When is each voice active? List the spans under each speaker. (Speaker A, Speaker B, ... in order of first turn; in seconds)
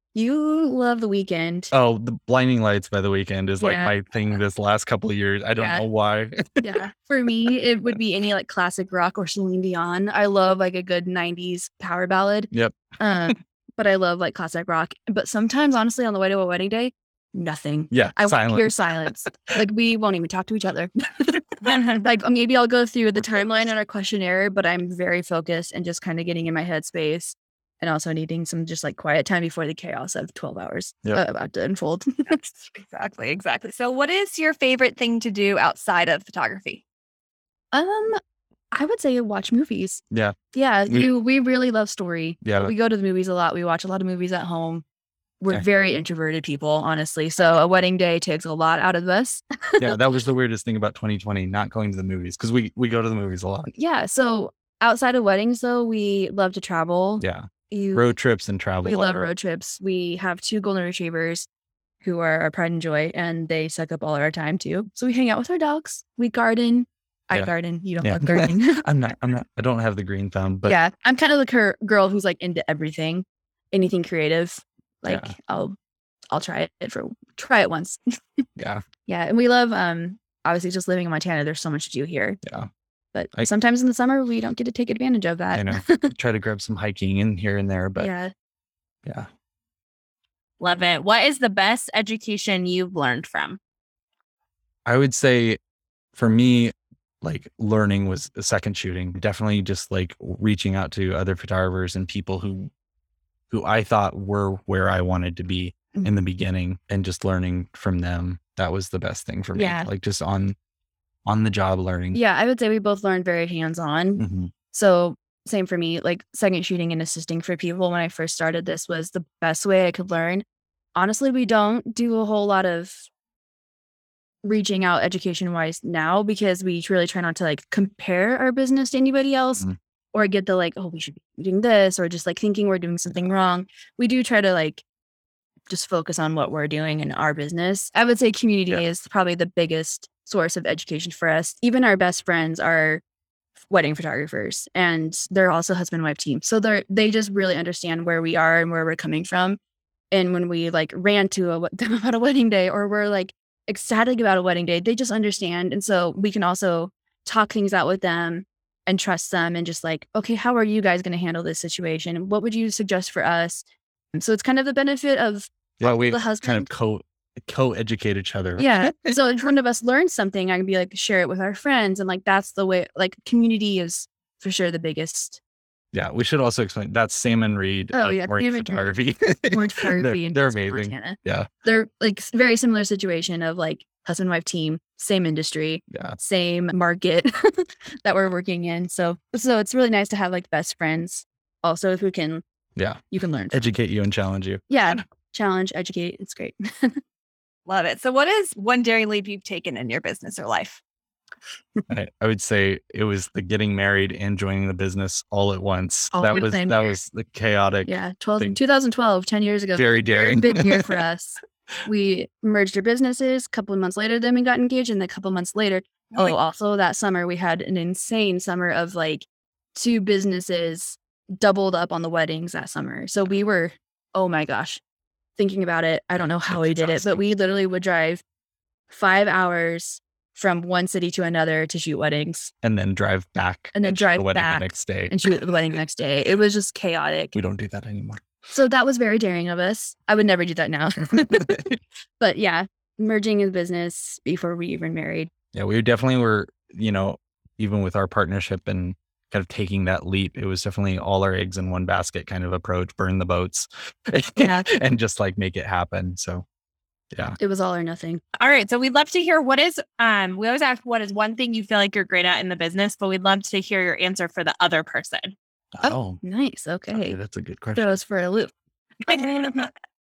Speaker A: 0.1-1.7, 3.6-3.9, 5.6-5.8, 6.6-32.4, 37.7-38.2, 38.7-40.0, 40.5-44.8, 45.4-50.0, 53.8-58.1, 58.8-61.5, 62.0-68.8, 70.7-75.8, 76.3-78.5, 79.1-82.4, 83.1-86.1, 88.0-88.3, 109.5-109.9, 112.1-120.4, 121.0-123.1, 124.4-134.8, 135.7-143.0, 143.7-149.6, 150.1-166.7, 168.6-175.4, 177.9-178.9, 179.5-192.4, 193.1-193.6, 194.7-197.0, 206.1-206.9, 207.9-224.8, 225.4-228.2, 228.9-232.5, 233.7-237.3, 238.5-245.3, 254.4-254.7, 257.4-258.2, 265.8-267.2, 267.8-268.5, 269.0-269.7
Speaker B: 1.7-6.8, 12.5-12.8, 17.9-18.7, 40.1-40.4, 42.4-42.7, 49.8-53.7, 57.2-59.3, 67.3-70.8, 75.1-75.4, 78.6-78.8, 85.5-88.1, 94.9-95.6, 96.2-102.7, 103.5-110.6, 111.3-112.2, 114.2-114.5, 165.8-169.2, 175.9-181.5, 185.9-186.2, 192.8-195.0, 201.9-208.6, 209.8-211.0, 226.5-227.2, 232.6-235.2, 237.3-238.2, 245.5-256.4, 257.1-257.4, 265.7-266.2, 266.9-268.0
Speaker C: 32.7-36.8, 197.7-200.8
Speaker D: 90.6-93.6, 258.4-265.3